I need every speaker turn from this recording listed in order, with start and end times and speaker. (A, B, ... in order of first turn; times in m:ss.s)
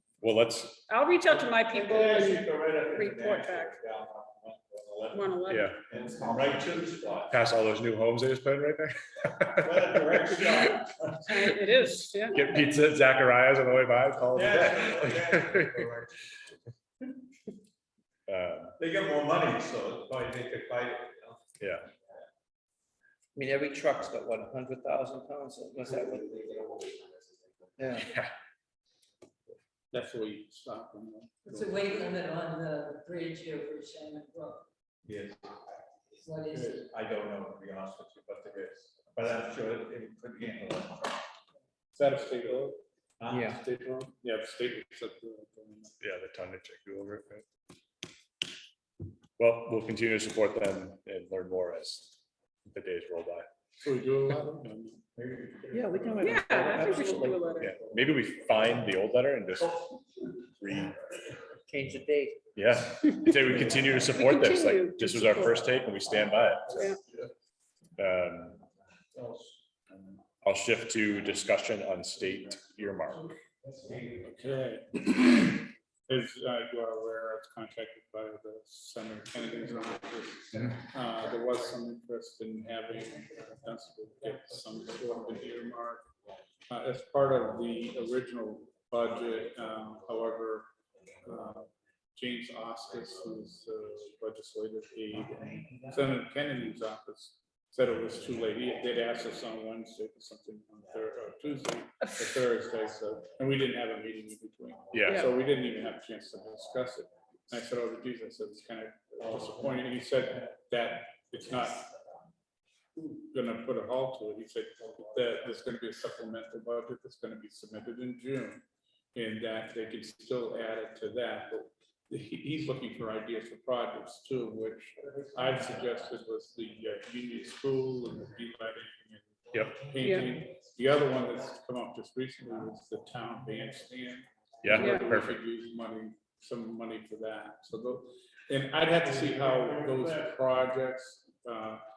0:00.2-0:00.9 A
0:00.9-0:03.8 B
0:01.5-0:07.4 C
0:05.1-0:05.7 B
0:05.5-0:05.8 A
0:07.3-0:10.3 A
0:09.6-0:11.5 C
0:11.3-0:12.4 B
0:12.3-0:15.9 A
0:14.3-0:16.4 C
0:18.3-0:18.8 A
0:18.8-0:21.5 C
0:21.6-0:21.9 A
0:23.4-0:26.9 D
0:27.8-0:28.1 D
0:28.0-0:28.3 A
0:29.9-0:32.2 E
0:31.4-0:34.7 F
0:35.0-0:35.6 C
0:36.1-0:36.8 F
0:36.5-0:41.2 C
0:41.9-0:42.8 E
0:43.2-0:43.6 C
0:43.3-0:43.6 D
0:43.6-0:45.9 E
0:46.0-0:47.5 A
0:49.4-0:53.5 A
0:53.8-0:55.0 E
0:55.2-0:56.4 C
0:55.7-0:57.6 D
0:56.2-0:57.8 B
0:57.5-0:58.0 C
0:57.6-0:59.9 A
1:00.6-1:01.0 A
1:01.7-1:02.4 D
1:02.6-1:06.9 A
1:04.0-1:05.6 B
1:08.0-1:08.6 A
1:09.2-1:10.0 C
1:10.4-1:13.3 A
1:14.2-1:26.1 E
1:26.7-1:30.7 E
1:31.2-1:51.9 E
1:44.9-1:45.3 A
1:53.0-1:58.6 E
1:59.2-2:21.8 E
2:10.0-2:10.3 B
2:14.6-2:15.4 A
2:14.7-2:15.1 B